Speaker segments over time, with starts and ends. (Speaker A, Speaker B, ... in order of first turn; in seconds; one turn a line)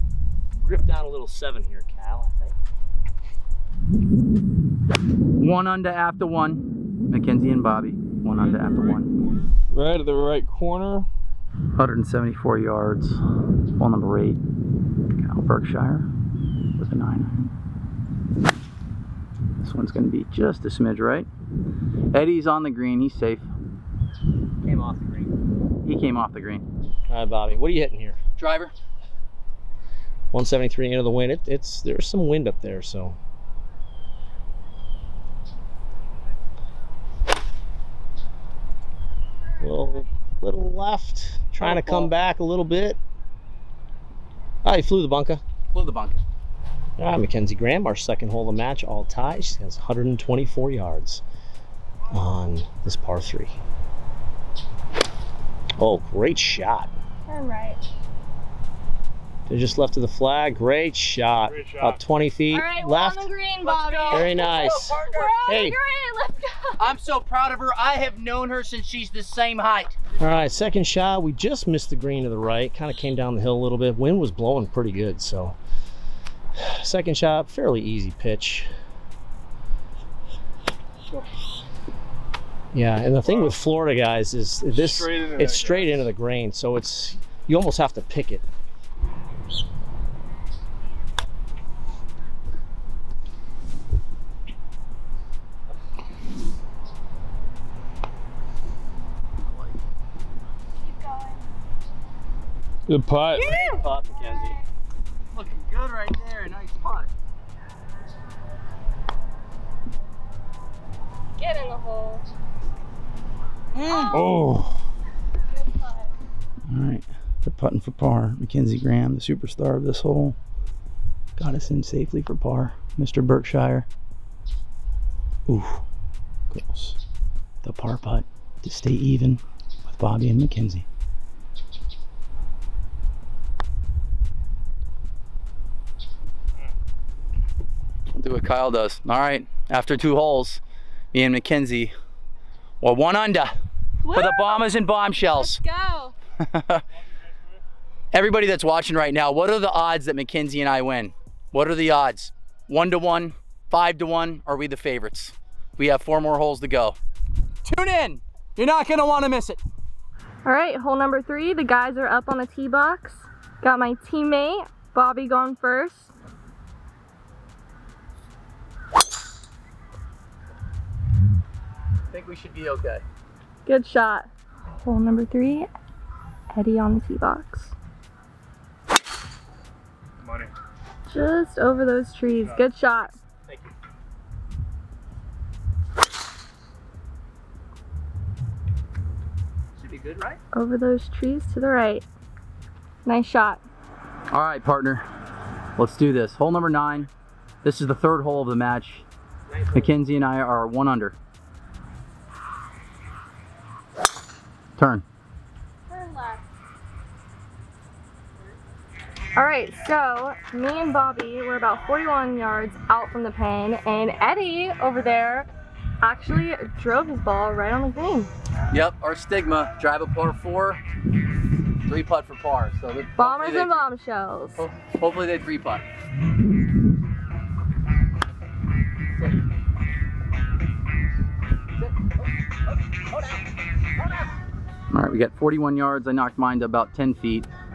Speaker A: 0.6-2.5
Speaker B: 5.4-9.1
Speaker C: 8.4-11.1
Speaker B: 11.8-13.2
Speaker B: 13.8-14.4
Speaker B: 15.1-16.1
Speaker B: 16.8-17.5
Speaker B: 19.6-21.3
Speaker B: 22.1-23.5
Speaker A: 24.6-25.3
Speaker B: 25.8-26.6
Speaker A: 27.1-28.2
Speaker B: 28.4-28.7
Speaker A: 30.3-33.2
Speaker A: 39.6-43.0
Speaker D: 39.8-40.0
Speaker A: 44.6-45.4
Speaker B: 45.7-46.2
Speaker A: 47.0-51.2
Speaker A: 52.1-53.6
Speaker A: 55.8-56.9
Speaker D: 57.3-57.8
Speaker A: 59.5-63.3
Speaker C: 61.4-62.0
Speaker D: 62.5-66.9
Speaker B: 63.6-65.4
Speaker A: 64.1-65.8
Speaker B: 66.8-70.0
Speaker A: 70.2-75.5
Speaker A: 76.5-78.7
Speaker A: 82.7-88.4
Speaker C: 83.2-83.6
Speaker C: 84.7-86.1
Speaker B: 99.4-99.8
Speaker D: 100.8-101.5
Speaker C: 102.9-103.5
Speaker D: 103.3-103.9
Speaker A: 103.4-104.5
Speaker B: 105.3-107.1
Speaker D: 111.4-112.2
Speaker B: 113.7-114.2
Speaker D: 113.9-114.4
Speaker C: 114.1-114.8
Speaker D: 115.5-116.1
Speaker B: 116.7-120.4
Speaker B: 121.4-123.9
Speaker B: 125.5-125.8
Speaker B: 126.5-127.0
Speaker B: 127.6-130.8
Speaker B: 138.1-140.6
Speaker B: 141.1-141.9
Speaker B: 142.8-143.5
Speaker D: 144.0-144.7
Speaker B: 144.1-145.6
Speaker D: 145.2-146.1
Speaker B: 146.4-146.8
Speaker B: 148.1-157.0
Speaker B: 157.6-159.6
Speaker D: 160.4-166.1
Speaker B: 172.1-173.0
Speaker D: 173.7-174.3
Speaker D: 174.8-175.7
Speaker D: 176.5-177.7
Speaker C: 180.2-180.5
Speaker D: 181.1-183.1
Speaker A: 189.8-190.4
Speaker D: 190.5-192.0
Speaker D: 193.1-193.6
Speaker B: 194.3-195.0
Speaker B: 195.8-197.1
Speaker B: 197.6-199.1
Speaker A: 199.5-199.8
Speaker B: 199.7-201.2
Speaker B: 204.8-205.0
Speaker D: 205.9-206.4
Speaker D: 209.3-215.5
Speaker D: 216.0-218.3
Speaker B: 218.7-220.8
Speaker B: 221.8-223.8
Speaker D: 223.2-224.6
Speaker B: 224.6-225.8
Speaker B: 234.9-237.5